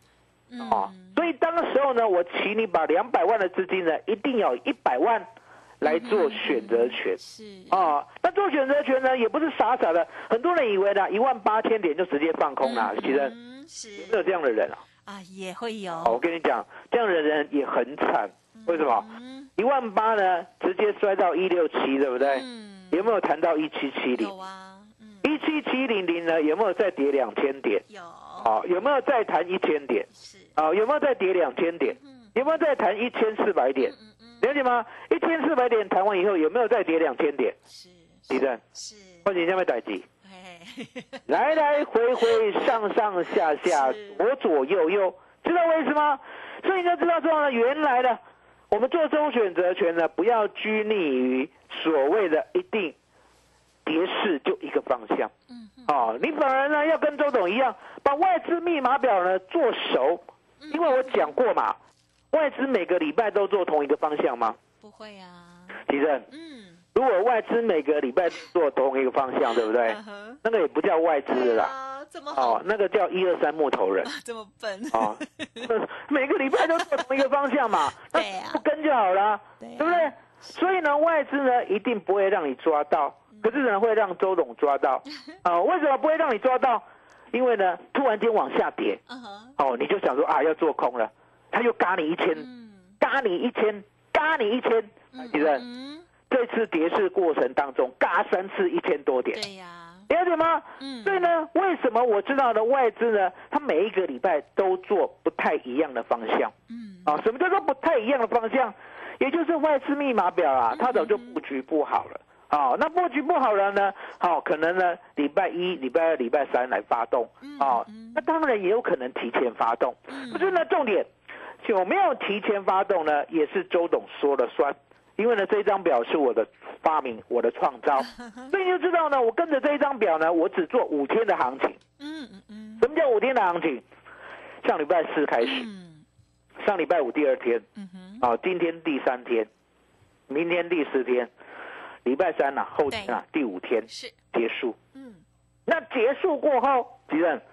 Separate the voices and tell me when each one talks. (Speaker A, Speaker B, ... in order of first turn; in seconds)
Speaker A: 0.5-1.2, 5.8-7.9, 12.6-14.2, 15.1-16.2, 18.5-19.5, 22.2-23.1, 24.1-25.4, 27.9-28.5, 30.1-30.5, 31.8-32.4, 33.8-34.5, 37.7-39.3, 40.2-41.5, 43.6-44.2, 55.5-56.3, 60.6-61.4, 64.8-66.8, 69.4-70.4, 71.3-72.7, 74.0-75.7, 76.5-77.2, 78.0-78.6, 79.6-80.1, 83.3-83.7, 89.1-89.5, 92.3-93.0, 95.1-96.0, 99.3-100.1, 100.8-101.3, 106.7-107.2, 110.7-111.4, 117.4-118.2, 120.1-120.6, 132.0-132.9, 135.4-136.0, 137.8-138.2, 142.9-143.2, 143.9-144.2, 144.9-145.2
Speaker B: 0.6-5.2, 5.8-7.2, 7.7-13.3, 14.0-14.8, 16.0-19.0, 19.6-24.3, 25.2-27.8, 28.4-37.5, 38.3-38.6, 39.2-40.0, 41.3-52.9, 53.9-55.3, 55.9-61.8, 62.3-64.6, 65.9-66.2, 66.9-71.7, 72.3-74.1, 74.9-89.0, 89.6-92.5, 93.0-95.6, 96.3-99.4, 100.1-106.5, 107.0-121.1, 121.6-131.8, 132.8-133.8, 134.6-135.7, 136.6-137.6, 138.2-139.5, 140.3-141.3, 142.0-144.8, 145.7-147.4